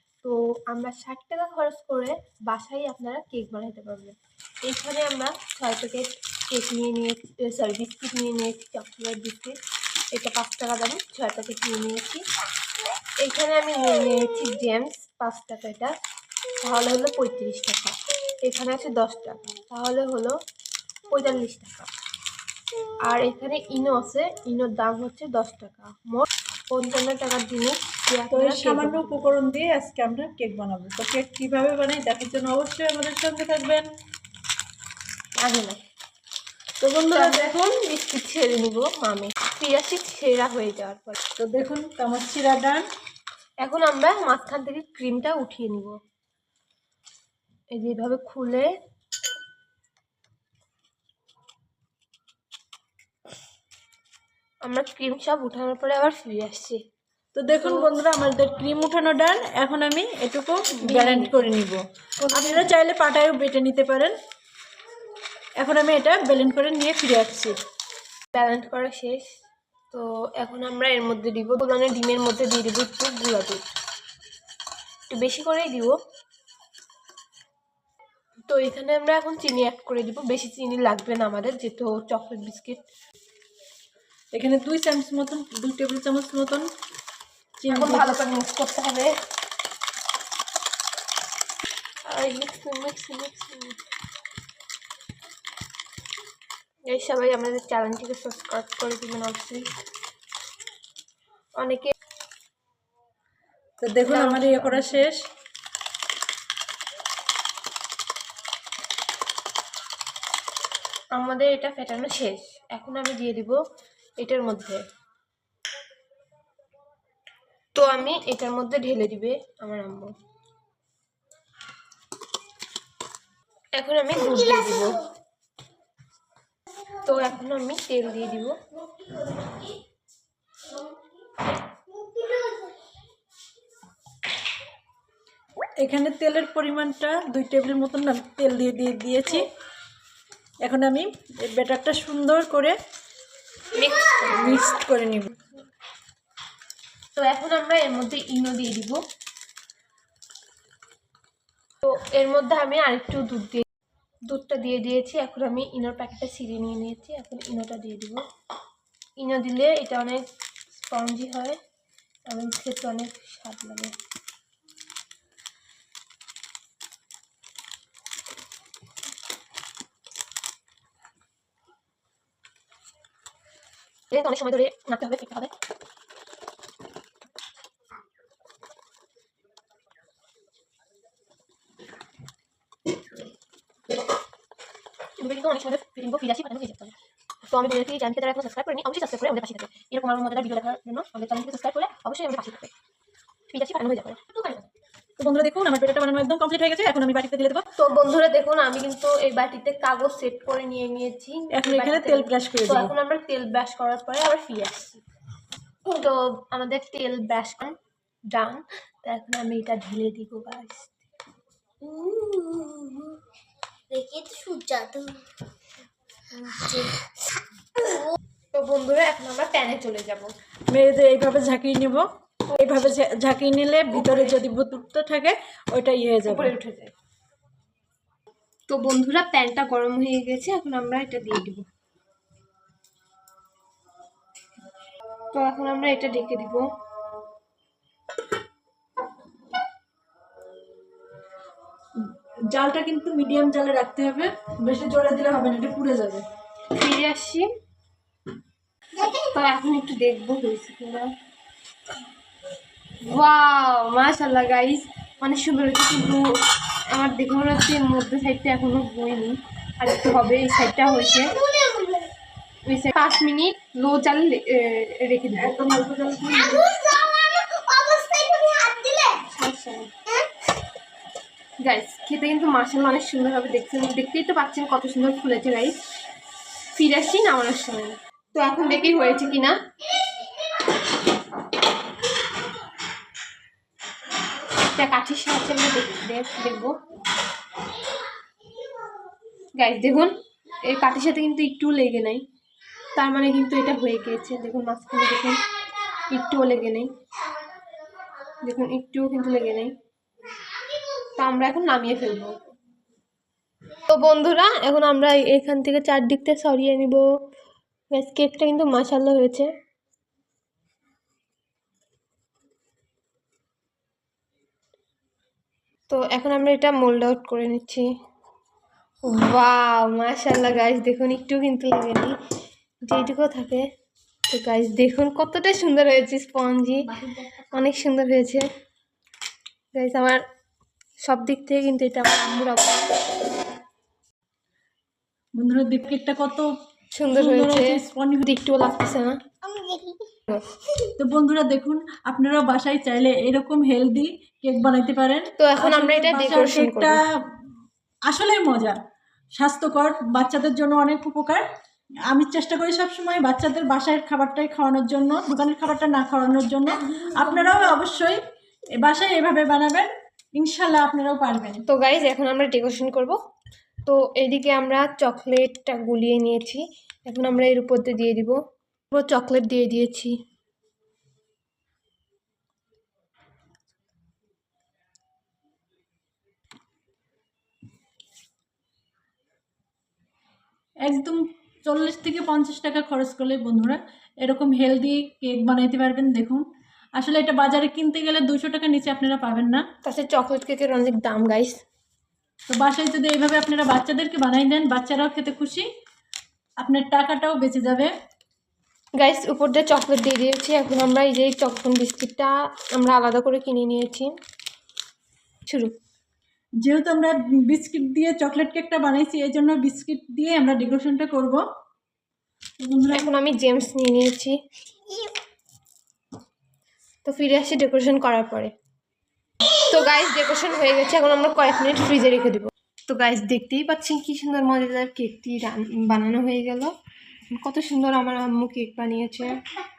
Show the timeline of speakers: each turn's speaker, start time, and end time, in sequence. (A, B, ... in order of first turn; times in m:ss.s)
0:00.2-0:09.6 A
0:10.1-0:12.2 A
0:13.2-0:15.9 A
0:16.6-0:20.4 A
0:21.1-0:21.9 A
0:23.0-0:29.3 A
0:28.3-0:33.9 B
0:35.4-0:35.8 A
0:36.8-0:37.5 B
0:37.1-0:41.2 A
0:41.4-0:42.9 B
0:43.6-0:46.0 A
0:47.7-0:48.7 A
0:54.6-0:56.8 A
0:57.3-1:04.2 B
1:00.7-1:01.4 A
1:02.2-1:02.7 A
1:05.6-1:07.6 B
1:08.3-1:09.2 A
1:09.9-1:13.6 A
1:15.1-1:16.0 A
1:18.5-1:22.8 A
1:24.3-1:26.7 B
1:27.6-1:28.1 B
1:27.7-1:29.1 A
1:32.0-1:33.8 A
1:36.9-1:39.6 A
1:41.6-1:41.9 A
1:43.8-1:45.2 B
1:44.0-1:45.1 A
1:51.1-1:53.6 A
1:54.2-1:54.8 A
1:57.7-2:00.1 A
2:03.8-2:05.1 A
2:07.0-2:08.6 A
2:12.2-2:12.6 C
2:15.8-2:19.5 B
2:20.6-2:22.8 B
2:23.7-2:24.6 A
2:24.3-2:25.4 B
2:27.1-2:29.0 A
2:31.8-2:33.6 A
2:34.3-2:38.2 A
2:39.2-2:41.6 A
2:42.3-2:43.9 A
2:54.1-2:55.5 A
3:05.2-3:12.7 A
3:13.5-3:14.6 A
3:15.2-3:17.6 B
3:17.8-3:25.0 A
3:21.5-3:22.9 B
3:25.9-3:27.8 A
3:28.3-3:31.0 A
3:31.8-3:33.2 C
3:33.9-3:35.3 C
3:36.4-3:36.9 C
3:36.5-3:36.8 A
3:38.5-3:40.3 A
3:40.7-3:42.1 B
3:42.5-3:42.9 A
3:42.6-3:46.5 B
3:43.9-3:44.4 A
3:46.2-3:46.9 A
3:48.7-3:51.6 A
3:55.3-3:56.7 A
4:01.9-4:06.3 B
4:06.7-4:07.5 A
4:09.0-4:11.1 A
4:13.0-4:16.3 A
4:16.9-4:21.5 A
4:22.6-4:25.6 A
4:25.4-4:26.8 B
4:26.7-4:29.2 C
4:29.1-4:29.9 A
4:31.6-4:35.7 A
4:36.7-4:39.6 A
4:44.6-4:46.8 A
4:49.5-4:52.2 A
4:52.9-4:56.9 A
4:58.4-4:59.7 A
5:00.9-5:02.4 A
5:03.8-5:07.0 A
5:07.9-5:09.5 A
5:15.9-5:17.9 A
5:19.0-5:22.1 A
5:22.8-5:23.6 A
5:24.3-5:28.4 A
5:29.7-5:30.2 A
5:31.0-5:33.0 A
5:35.3-5:36.5 B
5:36.9-5:40.6 A
5:37.1-5:38.4 B
5:41.0-5:47.0 B
5:45.4-5:47.0 A
5:48.0-5:48.8 B
5:49.4-5:51.5 B
5:52.1-5:58.2 B
5:58.7-6:01.6 B
6:01.7-6:03.2 A
6:03.8-6:08.4 A
6:08.9-6:10.1 A
6:20.8-6:29.6 B
6:29.8-6:31.6 A
6:32.5-6:35.7 B
6:36.6-6:37.9 B
6:39.0-6:44.1 A
6:45.4-6:45.7 A
6:46.6-6:51.4 B
6:52.6-6:53.1 B
6:52.9-6:54.4 A
6:57.0-6:58.5 A
6:59.4-7:06.7 A
7:07.3-7:09.3 A